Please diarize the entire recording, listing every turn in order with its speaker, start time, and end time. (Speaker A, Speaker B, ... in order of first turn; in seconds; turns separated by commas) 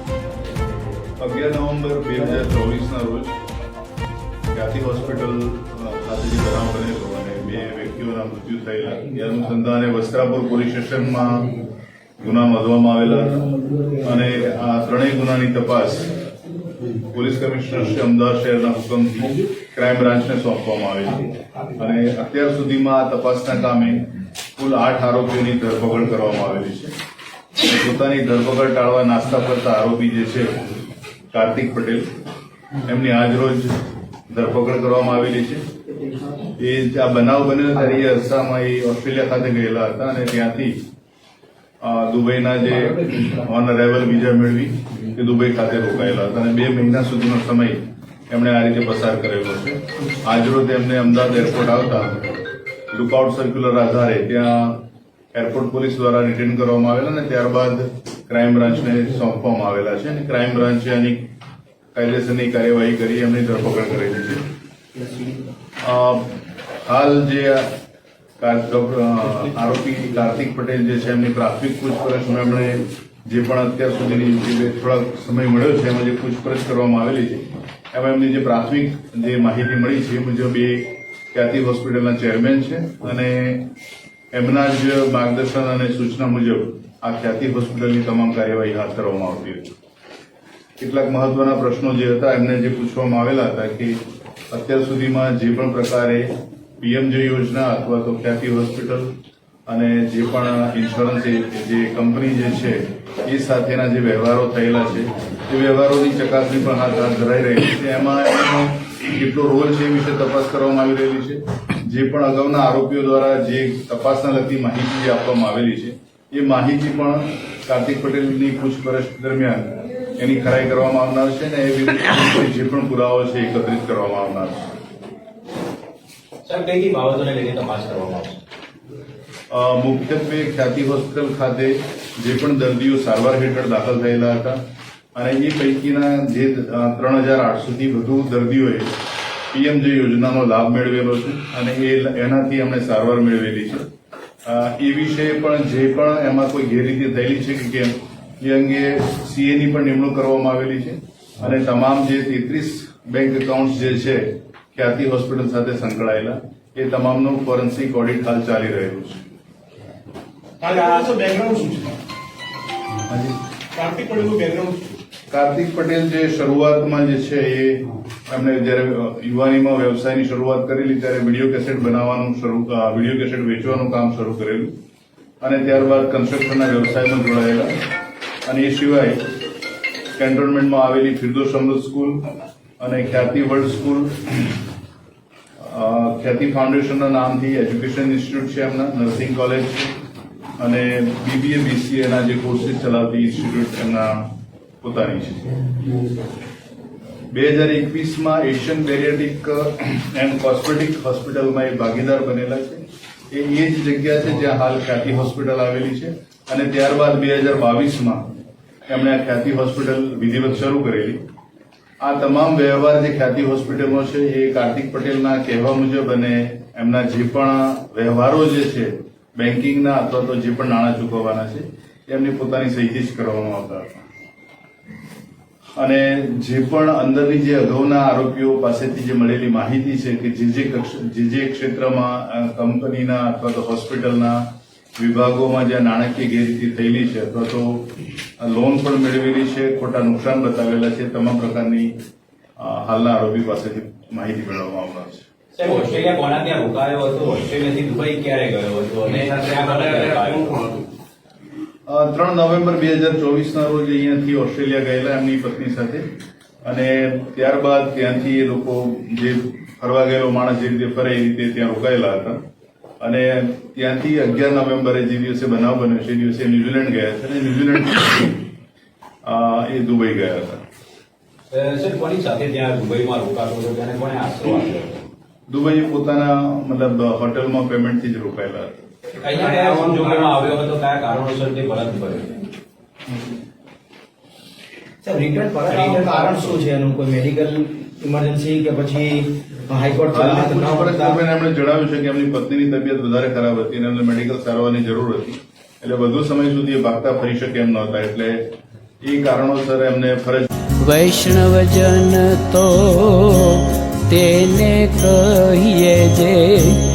Speaker A: 1.2-3.4, Speaker A: 4.5-11.6, Speaker A: 12.2-13.4, Speaker B: 13.6-13.9, Speaker A: 14.0-16.1, Speaker A: 17.0-26.9, Speaker A: 27.6-30.7, Speaker A: 31.3-32.1, Speaker A: 32.8-33.8, Speaker A: 34.3-35.6, Speaker A: 36.5-40.8, Speaker A: 41.8-52.2, Speaker A: 52.9-61.3, Speaker A: 62.0-64.4, Speaker A: 65.8-67.7, Speaker A: 68.4-83.7, Speaker A: 84.3-89.7, Speaker A: 90.8-94.0, Speaker A: 94.5-96.3, Speaker A: 96.8-99.1, Speaker A: 99.7-124.7, Speaker C: 126.4-128.4, Speaker A: 129.5-134.6, Speaker A: 135.2-138.9, Speaker A: 139.5-143.9, Speaker A: 144.4-159.2, Speaker D: 160.6-161.9, Speaker C: 160.7-161.1, Speaker A: 163.1-163.4, Speaker D: 163.8-164.9, Speaker A: 165.3-174.7, Speaker A: 175.4-177.7, Speaker A: 178.5-179.2, Speaker A: 180.2-182.2, Speaker A: 182.8-184.6, Speaker A: 185.6-189.9, Speaker A: 190.6-195.5, Speaker A: 197.3-208.2, Speaker A: 208.9-211.2, Speaker A: 212.0-224.1, Speaker A: 225.8-234.4, Speaker A: 235.0-241.9, Speaker A: 242.6-245.3, Speaker C: 245.6-250.6, Speaker D: 249.1-250.9, Speaker A: 251.9-256.0, Speaker A: 256.6-262.4, Speaker A: 263.0-268.4, Speaker A: 269.2-270.6, Speaker C: 271.5-275.0, Speaker A: 275.5-278.8, Speaker C: 279.2-282.4, Speaker D: 279.3-280.4, Speaker B: 285.0-291.2, Speaker C: 285.7-286.6, Speaker A: 290.1-298.4, Speaker A: 299.0-300.5, Speaker E: 300.8-306.8